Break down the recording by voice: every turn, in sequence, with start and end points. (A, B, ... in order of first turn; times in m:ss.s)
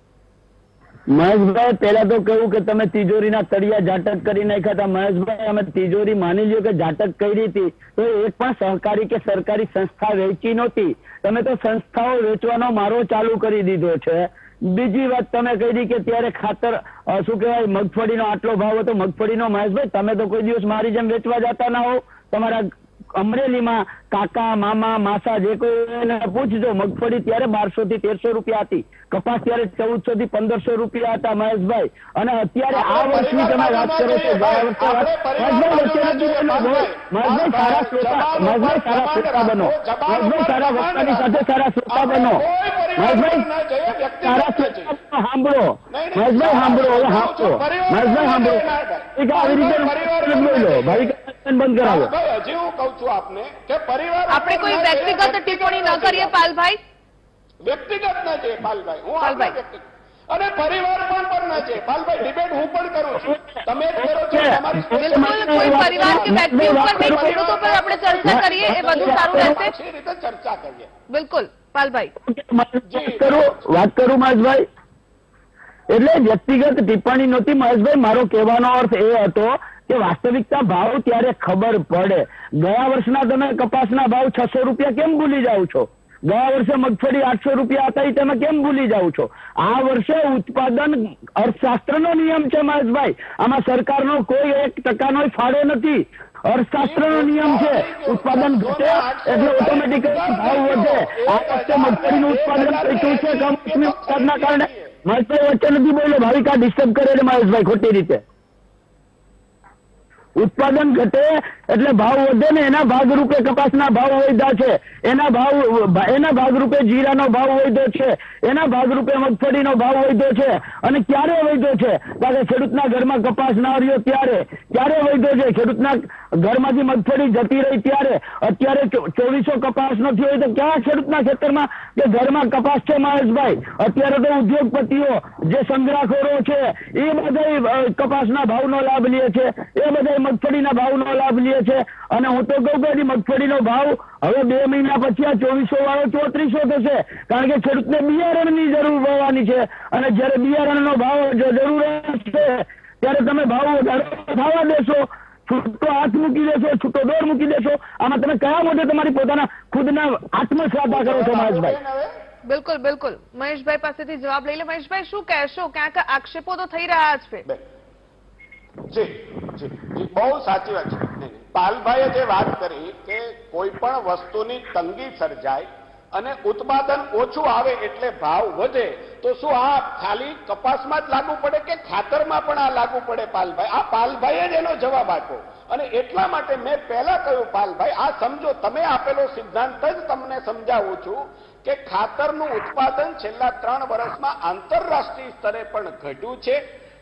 0:01.1-0:42.4 A
0:32.7-0:44.9 B
0:43.0-0:43.4 A
0:44.2-0:52.1 A
0:45.9-0:51.2 B
0:51.8-0:56.4 B
0:54.3-0:56.8 C
0:57.6-1:10.9 B
0:59.2-0:59.6 C
1:03.2-1:07.3 A
1:04.9-1:09.7 C
1:08.2-1:09.6 A
1:11.1-1:12.1 C
1:12.2-1:14.6 A
1:12.9-1:13.5 B
1:15.9-1:48.2 A
1:36.8-1:44.9 B
1:50.4-2:41.7 A
2:40.8-2:42.1 B
2:42.4-2:47.4 C
2:48.9-3:16.6 B